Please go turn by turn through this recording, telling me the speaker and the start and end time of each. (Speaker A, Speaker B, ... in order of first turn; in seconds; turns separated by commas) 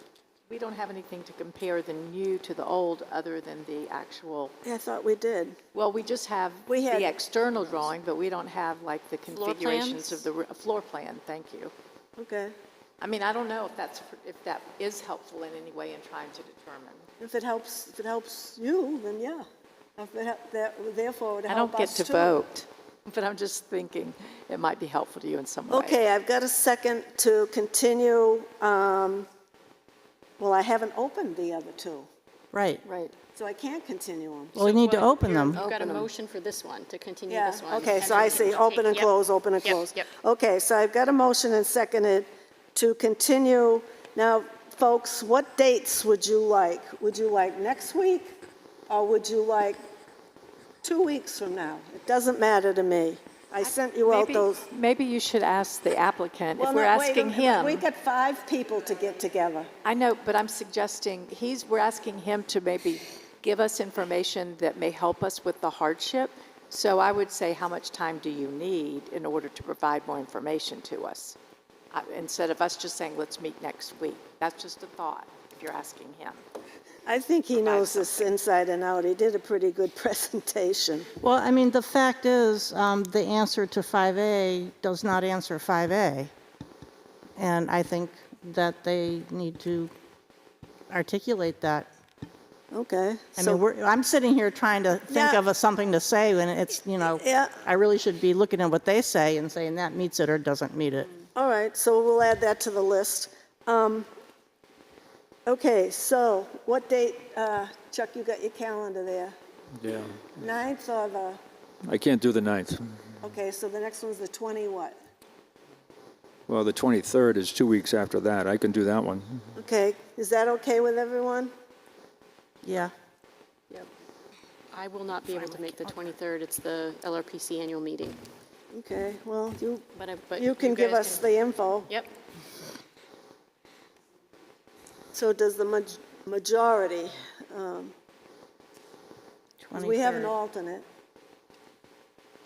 Speaker A: 0.5-4.5, Speaker B: 4.6-5.6, Speaker A: 5.7-11.7, Speaker B: 6.7-7.1, Speaker C: 9.3-10.2, Speaker B: 12.2-12.5, Speaker A: 13.0-17.1, Speaker B: 17.2-19.4, Speaker B: 20.0-22.4, Speaker A: 21.5-26.0, Speaker B: 25.7-29.3, Speaker B: 30.4-32.1, Speaker D: 32.5-32.8, Speaker A: 32.9-33.1, Speaker B: 33.3-34.6, Speaker D: 34.5-35.6, Speaker C: 34.6-40.0, Speaker B: 35.3-36.1, Speaker B: 37.3-48.3, Speaker B: 48.9-49.8, Speaker B: 50.8-54.6, Speaker A: 53.6-57.8, Speaker B: 56.6-59.7, Speaker A: 59.8-71.3, Speaker A: 71.9-76.4, Speaker B: 77.0-81.1, Speaker A: 77.5-78.3, Speaker D: 81.2-86.3, Speaker D: 87.4-89.9, Speaker D: 90.9-91.9, Speaker B: 92.7-93.6, Speaker D: 93.4-101.1, Speaker B: 95.1-95.4, Speaker B: 97.2-97.5, Speaker B: 101.3-104.1, Speaker B: 105.5-109.3, Speaker E: 109.8-110.3, Speaker B: 110.3-111.4, Speaker E: 111.8-112.9, Speaker B: 113.2-114.9, Speaker E: 116.5-119.4, Speaker B: 119.5-121.5, Speaker D: 122.6-122.9, Speaker C: 124.7-128.2, Speaker D: 125.3-125.9, Speaker B: 128.7-131.9, Speaker C: 129.9-131.3, Speaker B: 135.1-137.9, Speaker D: 139.6-140.3, Speaker B: 139.7-140.8